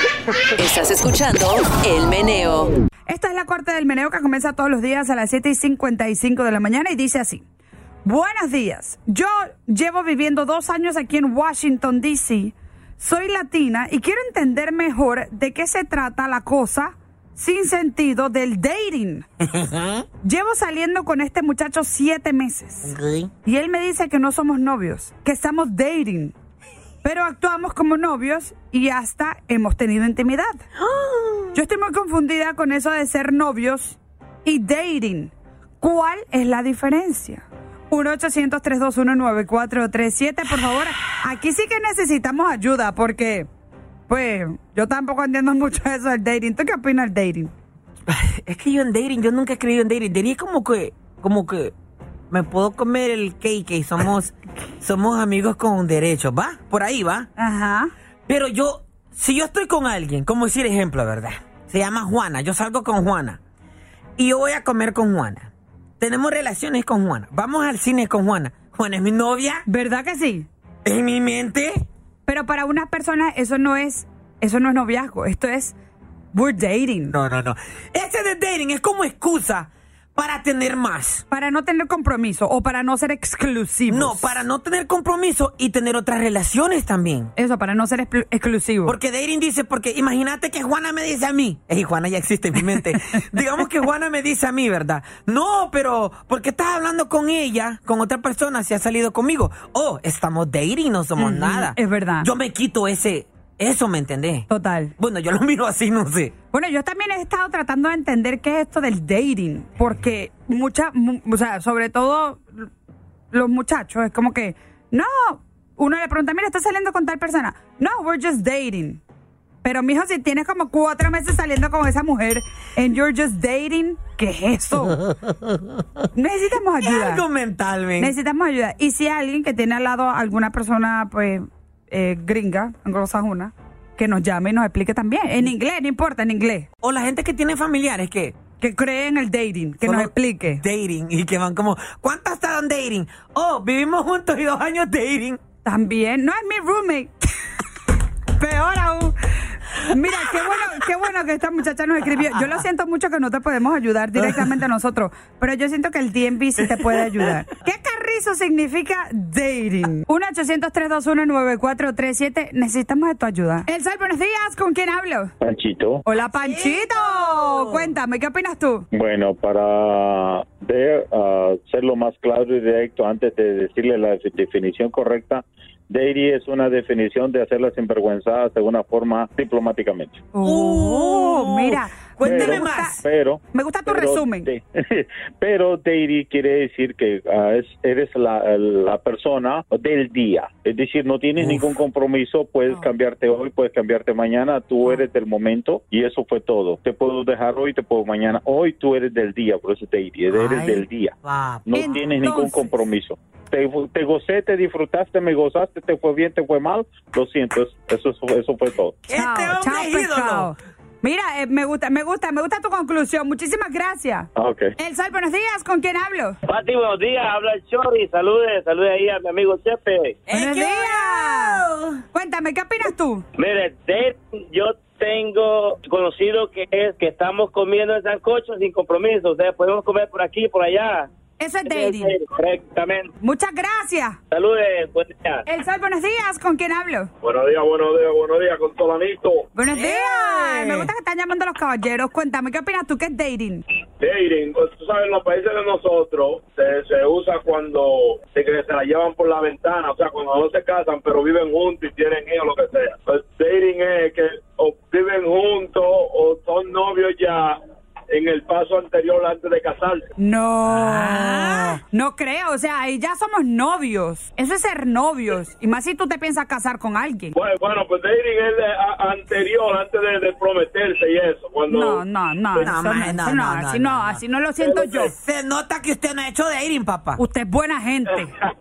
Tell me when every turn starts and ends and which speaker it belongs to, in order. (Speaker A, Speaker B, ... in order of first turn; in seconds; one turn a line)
Speaker A: 0.6-2.7
Speaker B: 3.1-7.4
Speaker B: 8.0-19.3
Speaker C: 19.4-20.0
Speaker B: 20.2-26.3
Speaker C: 22.8-23.3
Speaker B: 27.0-30.6
Speaker C: 30.8-31.6
Speaker B: 31.5-43.5
Speaker B: 44.1-47.5
Speaker C: 48.1-51.7
Speaker C: 52.3-57.3
Speaker B: 57.4-57.9
Speaker C: 58.3-63.4
Speaker C: 64.2-69.6
Speaker B: 69.7-70.5
Speaker C: 70.8-71.8
Speaker B: 72.2-75.7
Speaker B: 76.3-77.1
Speaker C: 77.1-81.2
Speaker B: 81.3-84.4
Speaker C: 83.9-87.3
Speaker B: 87.3-89.0
Speaker C: 88.8-106.3
Speaker B: 101.2-102.3
Speaker B: 104.5-104.9
Speaker B: 106.5-112.7
Speaker B: 113.3-119.0
Speaker B: 119.6-125.0
Speaker C: 125.1-125.6
Speaker B: 126.1-127.2
Speaker C: 126.8-128.1
Speaker B: 128.0-136.7
Speaker C: 136.8-138.3
Speaker B: 138.6-140.6
Speaker C: 139.8-145.4
Speaker B: 145.6-147.2
Speaker B: 148.3-149.2
Speaker B: 149.7-165.3
Speaker C: 156.6-157.3
Speaker D: 165.4-166.0
Speaker B: 166.0-168.8
Speaker C: 166.3-167.9
Speaker D: 168.9-180.2
Speaker B: 180.3-183.0
Speaker C: 180.4-183.0
Speaker D: 182.2-209.0
Speaker B: 183.5-184.5
Speaker C: 191.4-191.7
Speaker C: 200.3-202.1
Speaker B: 201.7-202.7
Speaker C: 209.1-210.5
Speaker B: 209.1-216.3
Speaker D: 214.3-214.7
Speaker E: 216.5-220.2
Speaker C: 220.3-222.0
Speaker B: 220.3-221.6
Speaker B: 222.1-223.2
Speaker E: 223.4-231.1
Speaker B: 231.4-232.1
Speaker E: 231.7-233.1
Speaker B: 233.2-234.2
Speaker E: 234.3-235.4
Speaker B: 235.4-237.1
Speaker F: 237.2-239.5
Speaker B: 239.5-243.6
Speaker C: 239.7-240.9
Speaker F: 244.0-260.1
Speaker B: 260.2-267.3
Speaker C: 260.6-261.8
Speaker F: 267.3-272.0
Speaker B: 271.7-275.1
Speaker C: 272.5-274.2
Speaker F: 274.6-275.0
Speaker C: 275.1-277.2
Speaker B: 277.2-278.3